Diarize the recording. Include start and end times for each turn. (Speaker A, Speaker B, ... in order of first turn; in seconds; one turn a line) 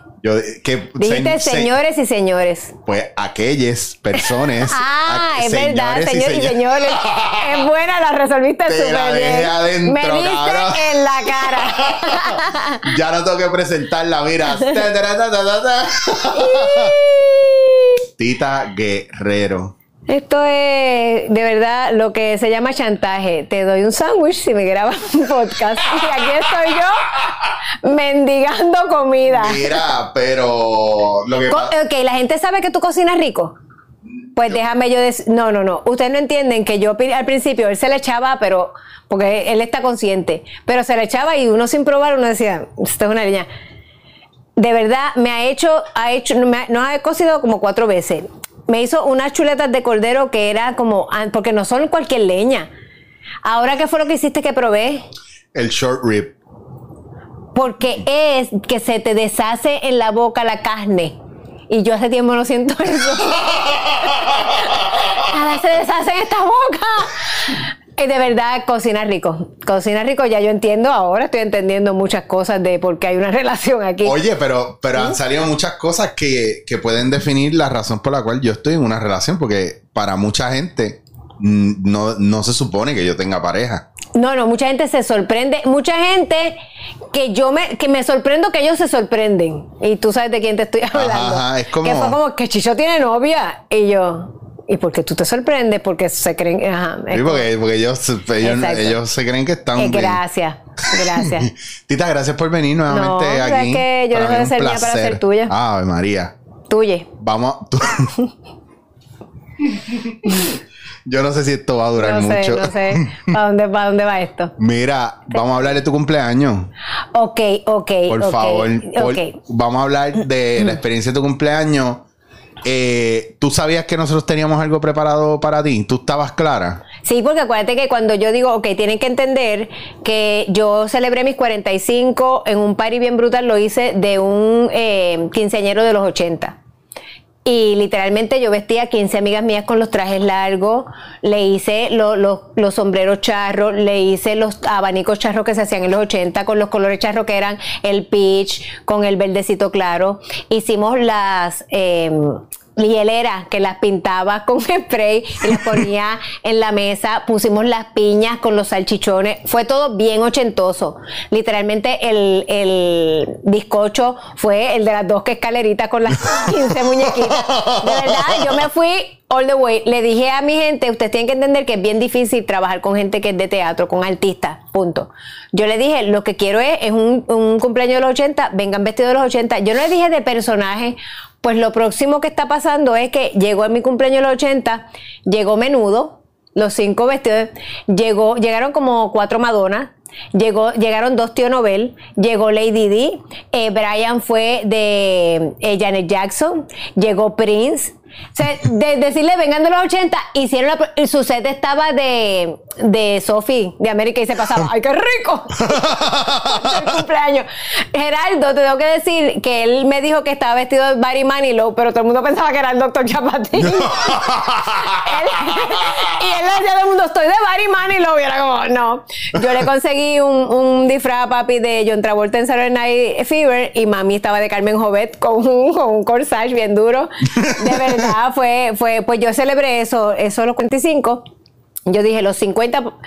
Speaker A: 0.2-1.7
Speaker B: 1.0-2.8
Speaker A: 2.9-7.7
Speaker B: 4.4-12.9
Speaker A: 8.7-17.0
Speaker B: 16.3-17.9
Speaker A: 18.2-19.7
Speaker B: 20.1-27.3
Speaker B: 27.8-29.8
Speaker A: 29.3-31.7
Speaker B: 31.5-33.6
Speaker B: 34.4-43.5
Speaker B: 44.6-52.7
Speaker B: 53.5-55.0
Speaker A: 55.5-56.4
Speaker B: 57.5-61.2
Speaker B: 61.7-74.2
Speaker A: 74.0-83.8
Speaker B: 84.2-86.6
Speaker B: 87.1-97.5
Speaker A: 90.9-92.2
Speaker A: 97.1-100.2
Speaker B: 98.4-99.0
Speaker B: 99.8-101.5
Speaker A: 100.8-106.3
Speaker B: 102.9-105.5
Speaker B: 106.7-107.1
Speaker A: 107.2-108.1
Speaker A: 109.6-113.3
Speaker B: 112.0-114.5
Speaker A: 114.6-116.7
Speaker B: 117.1-119.4
Speaker A: 118.1-122.0
Speaker A: 122.6-126.8
Speaker B: 127.0-136.6
Speaker B: 137.4-231.2
Speaker A: 167.2-168.6
Speaker A: 205.7-206.9
Speaker A: 213.6-216.1
Speaker A: 227.4-228.0
Speaker B: 231.9-232.9